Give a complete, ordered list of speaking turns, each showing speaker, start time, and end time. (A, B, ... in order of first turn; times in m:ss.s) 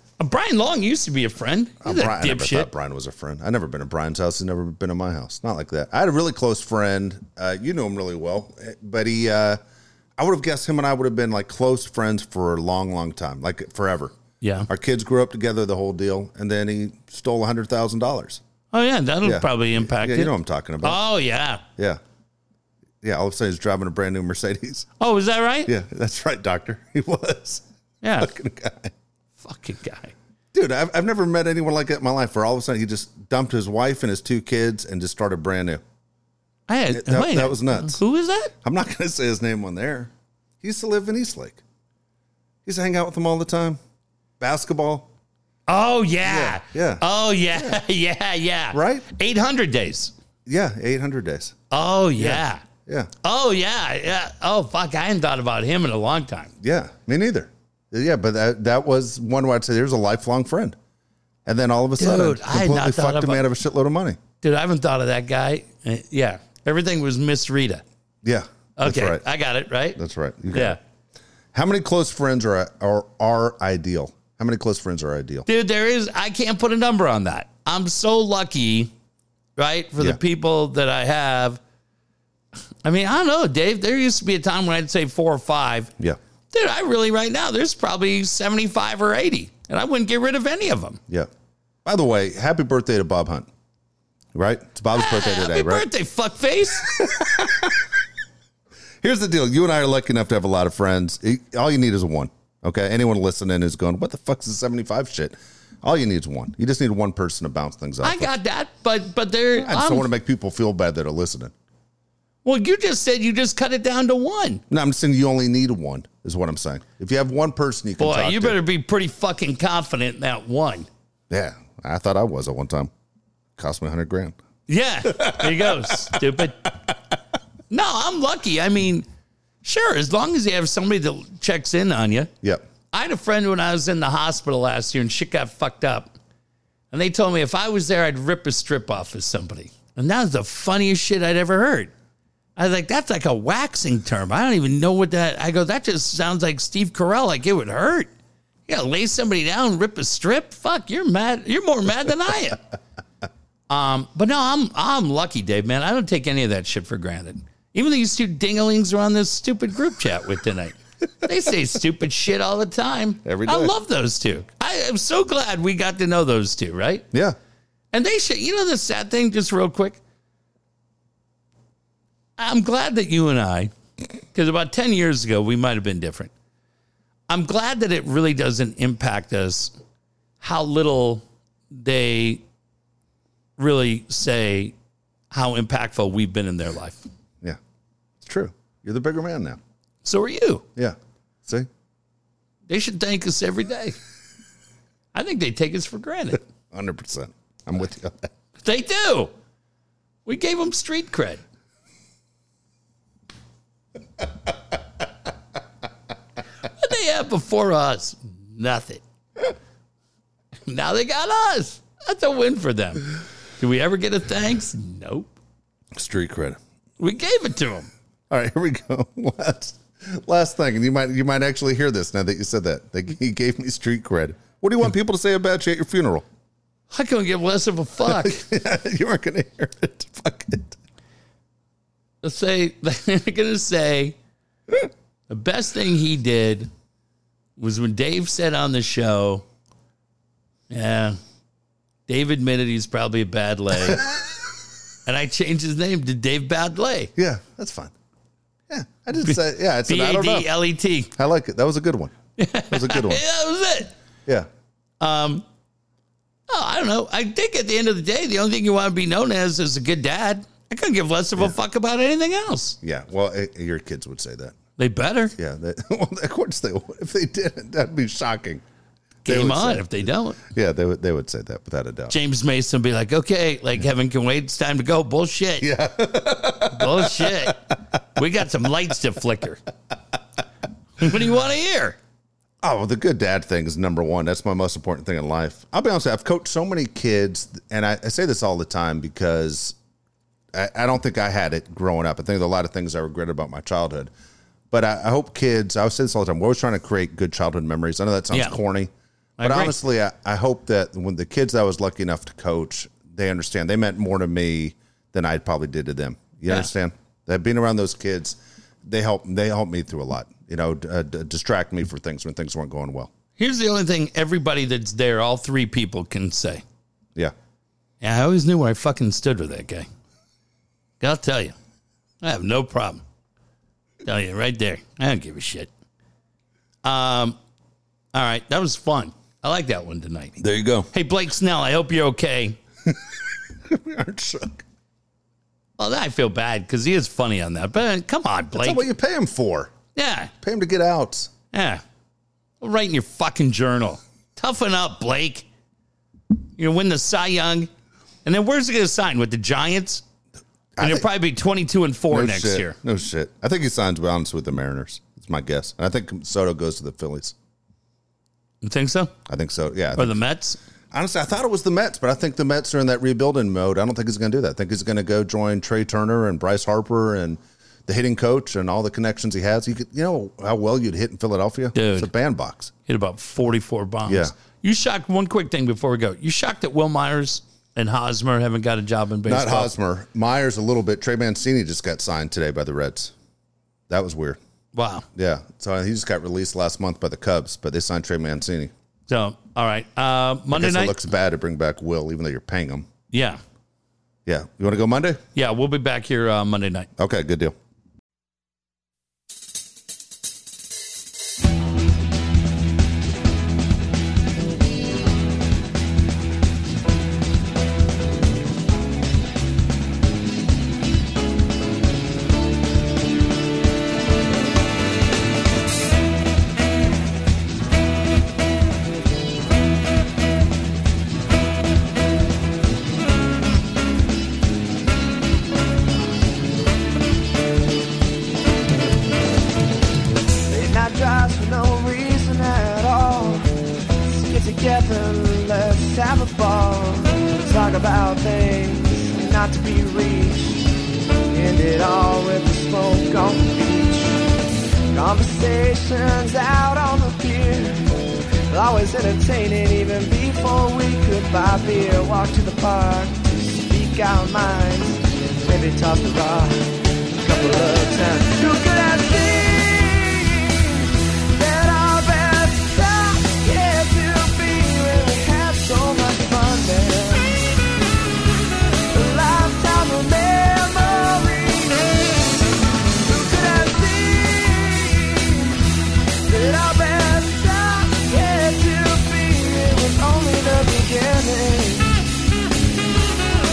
0:00.2-0:02.7 A
0:01.8-0:09.6 B
0:10.2-0:14.1 B
0:14.4-0:14.7 A
0:14.7-0:18.4 B
0:18.7-0:21.6 A
0:19.2-0:21.0 B
0:23.0-0:24.9 B
0:25.0-0:25.7 A
0:25.7-0:27.6 B
0:28.0-0:28.3 A
0:28.2-0:28.9 B
0:29.4-0:30.1 A
0:30.5-0:35.8 B
0:36.7-0:38.5 A
0:36.9-0:38.0 B
0:38.6-0:41.6 B
0:42.6-0:43.8 B
0:44.4-0:45.1 B
0:45.7-0:50.1 A
0:46.2-0:47.8 B
0:48.7-0:49.0 B
0:50.4-0:51.6 B
0:51.7-0:52.6 A
0:52.2-0:53.1 B
0:53.2-0:56.5 A
0:56.6-1:00.8 B
1:01.4-1:04.2 B
1:02.0-1:03.4 A
1:04.4-1:07.8 A
1:08.2-1:09.2 B
1:08.8-1:10.0 A
1:10.0-1:10.8 B
1:10.5-1:10.8 A
1:11.5-1:15.4 B
1:15.4-1:18.9 A
1:19.6-1:21.6 A
1:22.8-1:25.9 A
1:26.5-1:31.0 A
1:31.8-1:33.5 B
1:34.3-1:35.9 B
1:34.9-1:37.0 A
1:36.8-1:37.9 B
1:39.0-1:48.3 B
1:48.0-1:50.1 A
1:49.6-1:51.5 B
1:52.4-1:54.6 A
1:54.7-1:58.6 B
1:58.0-2:00.9 A
2:01.3-2:02.9 B
2:03.6-2:04.3 B
2:04.7-2:06.7 A
2:05.0-2:06.4 B
2:07.7-2:09.0 A
2:09.6-2:12.3 A
2:12.9-2:16.1 A
2:16.9-2:21.9 A
2:22.6-2:28.1 A
2:28.7-2:32.6 A
2:33.7-2:47.0 A
2:43.2-2:43.7 B
2:47.9-2:50.0 A
2:52.4-2:53.7 A
2:54.3-2:56.3 A
2:57.3-2:59.7 A
3:00.4-3:02.4 A
3:03.6-3:04.7 A
3:05.3-3:07.0 A
3:08.2-3:09.6 B
3:10.0-3:10.6 A
3:10.8-3:11.7 B
3:12.7-3:14.0 A
3:15.1-3:16.4 A
3:16.7-3:18.3 B
3:18.6-3:19.3 A
3:20.2-3:21.4 A
3:26.6-3:29.0 A
3:30.7-3:35.4 A
3:35.9-3:36.6 B
3:37.0-3:37.9 A
3:38.3-3:46.2 B
3:46.9-3:48.4 A
3:48.0-3:50.8 B
3:52.2-3:54.2 A
3:55.3-3:56.7 A
3:57.6-3:59.4 A
4:00.7-4:01.2 A
4:02.1-4:04.1 A
4:05.0-4:07.1 A
4:07.2-4:07.9 B
4:08.7-4:10.5 B
4:09.2-4:11.1 A
4:11.2-4:12.1 B
4:12.4-4:13.9 A
4:12.7-4:13.2 B
4:15.0-4:15.4 A
4:16.5-4:22.8 A
4:22.8-4:24.6 B
4:24.8-4:25.3 A
4:25.4-4:28.6 B
4:29.2-4:30.4 A
4:29.3-4:29.9 B
4:30.4-4:32.1 B
4:32.1-4:35.7 A
4:35.6-4:37.5 B
4:36.7-4:39.6 A
4:41.0-4:42.0 A
4:42.6-4:49.8 B
4:50.5-4:54.1 B
4:54.7-5:13.1 B
4:59.4-4:59.8 A
5:13.4-5:16.6 A
5:18.0-5:19.9 A
5:21.0-5:21.5 A
5:22.2-5:23.0 A
5:24.0-5:25.7 A
5:26.8-5:27.4 A
5:28.1-5:30.4 A
5:30.4-5:30.9 B
5:30.9-5:32.6 A
5:32.8-5:34.6 B
5:35.8-5:38.9 A
5:38.6-5:39.7 B
5:39.9-5:40.3 A
5:40.4-5:41.3 B
5:41.5-5:41.8 A
5:42.6-5:45.5 A
5:46.6-5:47.7 A
5:48.2-5:50.0 A
5:50.8-5:51.1 B
5:50.8-5:52.8 A
5:52.1-5:57.3 B
5:58.6-5:59.1 A
5:59.3-6:00.2 B
6:00.0-6:00.6 A
6:00.9-6:12.7 B
6:11.7-6:12.1 A
6:12.9-6:19.7 A
6:14.1-6:14.3 B
6:19.2-6:23.1 B
6:23.9-6:24.4 B
6:24.7-6:25.0 A
6:25.1-6:28.7 B
6:29.1-6:31.0 A
6:30.5-6:32.9 B
6:33.1-6:33.4 A
6:34.2-6:35.2 B
6:35.4-6:36.9 A
6:37.0-6:37.5 B
7:10.5-7:20.7 C
7:21.3-7:24.1 C
7:24.9-7:47.6 C
7:48.9-7:52.5 C
7:53.0-7:55.7 C
7:56.2-8:02.0 C